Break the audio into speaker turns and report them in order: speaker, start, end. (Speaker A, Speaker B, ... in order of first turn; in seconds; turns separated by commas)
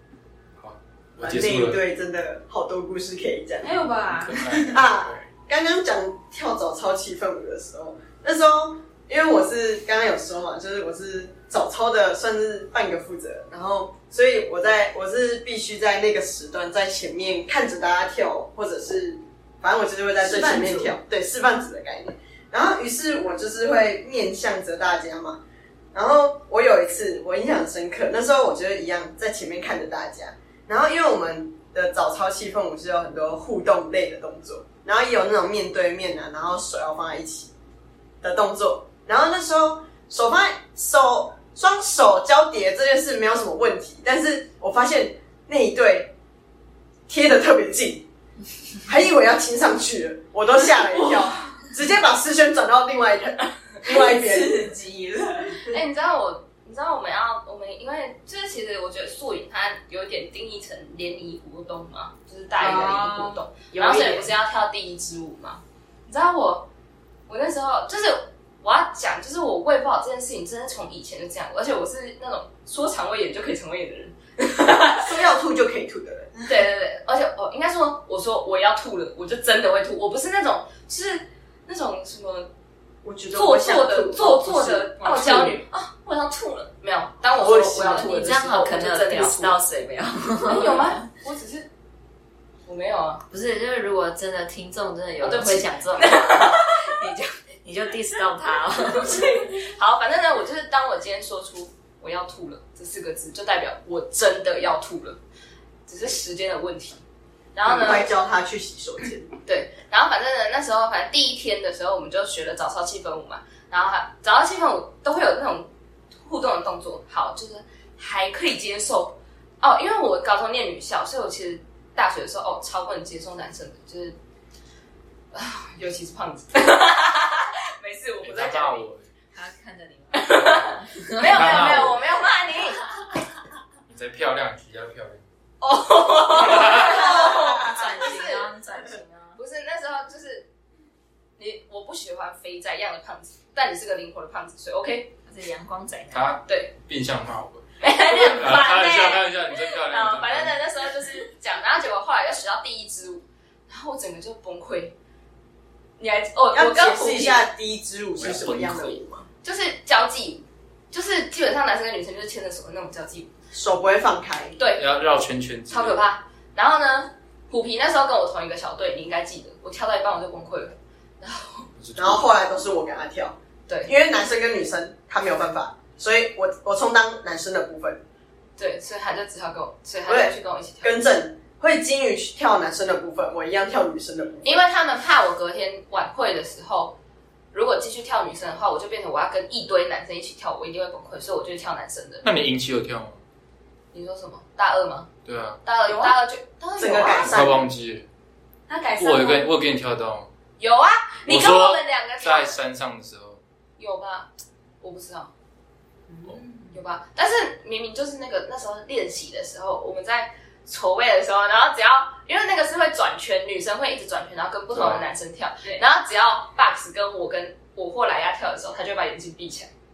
Speaker A: 0.6-1.8, Speaker B: 1.2-3.8, Speaker C: 3.6-4.7, Speaker A: 4.1-5.3, Speaker B: 4.6-25.4, Speaker C: 20.2-21.0, Speaker B: 25.9-37.5, Speaker B: 38.2-46.1, Speaker B: 47.1-48.1, Speaker B: 48.9-54.7, Speaker C: 53.8-55.7, Speaker D: 55.7-66.7, Speaker C: 62.6-64.3, Speaker D: 67.3-75.1, Speaker B: 75.0-76.3, Speaker D: 76.4-82.5, Speaker B: 83.0-85.5, Speaker D: 83.3-89.6, Speaker B: 87.3-88.1, Speaker E: 88.0-91.0, Speaker D: 90.4-91.7, Speaker D: 92.7-93.2, Speaker E: 93.3-99.5, Speaker D: 95.2-97.1, Speaker D: 98.8-105.2, Speaker D: 105.9-107.0, Speaker D: 107.5-108.1, Speaker B: 107.6-109.3, Speaker D: 109.5-124.2, Speaker D: 125.3-128.9, Speaker A: 128.2-129.1, Speaker E: 129.3-131.8, Speaker D: 130.1-133.2, Speaker A: 131.2-132.0, Speaker A: 133.9-135.2, Speaker D: 135.6-138.5, Speaker A: 136.3-136.9, Speaker E: 136.4-139.4, Speaker B: 136.8-137.9, Speaker D: 139.4-140.5, Speaker D: 141.4-145.1, Speaker E: 145.3-146.3, Speaker A: 146.1-150.6, Speaker D: 146.5-146.7, Speaker D: 147.8-154.9, Speaker D: 156.0-157.5, Speaker B: 156.5-159.2, Speaker A: 158.2-159.0, Speaker D: 159.4-163.3, Speaker B: 163.5-164.6, Speaker D: 164.6-165.0, Speaker A: 164.7-166.0, Speaker D: 165.7-171.7, Speaker A: 171.8-172.3, Speaker B: 171.9-178.0, Speaker D: 173.7-173.9, Speaker D: 178.6-181.0, Speaker B: 180.1-184.6, Speaker D: 184.4-187.0, Speaker D: 187.5-192.2, Speaker A: 192.2-193.2, Speaker D: 193.9-195.1, Speaker A: 195.2-195.6, Speaker D: 195.6-197.4, Speaker C: 195.8-196.2, Speaker B: 196.8-197.7, Speaker A: 197.2-198.1, Speaker C: 198.7-199.5, Speaker A: 199.0-200.3, Speaker D: 200.6-202.5, Speaker A: 201.2-203.4, Speaker D: 203.8-204.3, Speaker D: 204.8-205.3, Speaker C: 206.1-206.8, Speaker D: 206.7-219.7, Speaker A: 214.7-215.0